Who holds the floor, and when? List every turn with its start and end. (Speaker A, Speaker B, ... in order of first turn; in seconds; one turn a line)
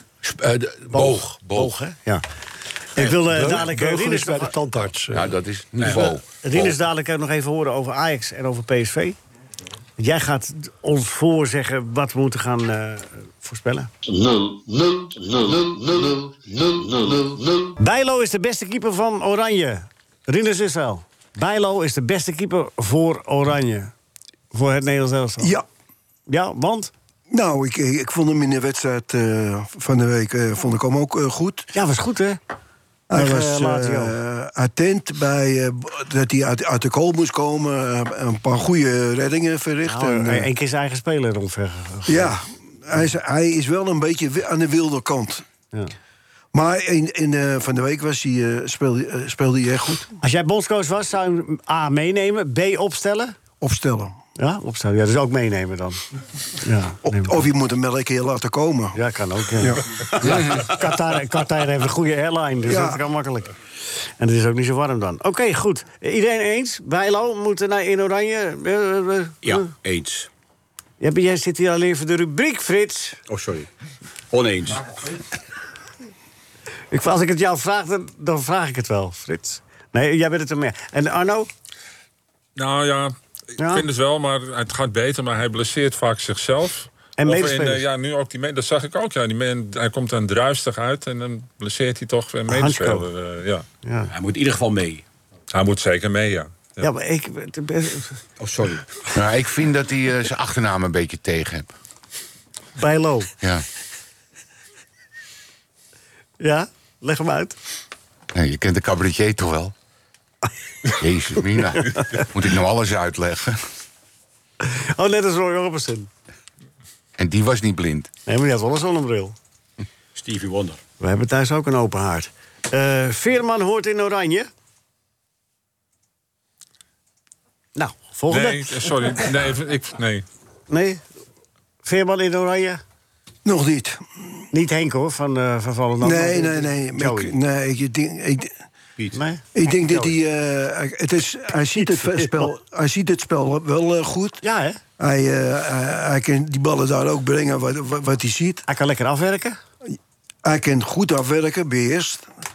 Speaker A: 0.2-1.7
Speaker B: 0.9-2.2
Speaker B: 2.9-4.5
Speaker C: 3.0-5.3
Speaker A: 5.1-6.7
Speaker D: 5.8-6.1
Speaker B: 5.9-9.2
Speaker B: 10.0-13.9
Speaker E: 14.0-17.8
Speaker B: 17.8-23.9
Speaker B: 24.5-25.6
Speaker F: 25.4-25.6
Speaker B: 26.3-26.9
Speaker F: 27.3-31.7
Speaker B: 31.7-32.4
Speaker F: 33.1-40.5
Speaker B: 33.1-34.1
Speaker B: 39.8-42.3
Speaker F: 42.1-45.4
Speaker F: 46.5-50.1
Speaker B: 50.2-53.4
Speaker F: 53.6-54.2
Speaker B: 54.4-56.0
Speaker B: 56.6-57.4
Speaker F: 57.0-59.0
Speaker B: 58.9-63.5
Speaker F: 59.6-59.9
Speaker A: 60.2-60.7
Speaker F: 62.6-63.0
Speaker B: 64.2-69.7
Speaker D: 69.4-70.3
Speaker B: 71.0-73.2
Speaker D: 73.3-73.7
Speaker D: 74.3-74.9
Speaker B: 76.9-81.5
Speaker G: 82.5-93.6
Speaker B: 83.6-83.8
Speaker B: 87.2-87.8
Speaker B: 92.5-93.1
Speaker B: 93.8-94.1
Speaker D: 94.1-95.0
Speaker G: 95.5-96.9
Speaker B: 96.8-98.2
Speaker D: 98.4-98.9
Speaker A: 99.1-101.7
Speaker B: 102.8-103.3
Speaker B: 106.4-107.5
Speaker A: 108.3-109.7
Speaker A: 110.9-113.6
Speaker B: 114.6-116.1
Speaker A: 117.2-118.1
Speaker B: 118.3-119.3
Speaker D: 120.1-120.8
Speaker B: 121.0-124.5
Speaker B: 127.8-128.9
Speaker G: 128.3-130.2
Speaker B: 130.7-131.0
Speaker B: 131.8-132.8
Speaker F: 133.4-134.0
Speaker B: 134.5-137.3
Speaker F: 136.0-138.5
Speaker B: 139.1-140.1
Speaker F: 139.5-144.4
Speaker B: 141.7-142.5
Speaker B: 144.4-144.8
Speaker F: 145.0-148.6
Speaker B: 148.7-149.6
Speaker F: 150.4-152.3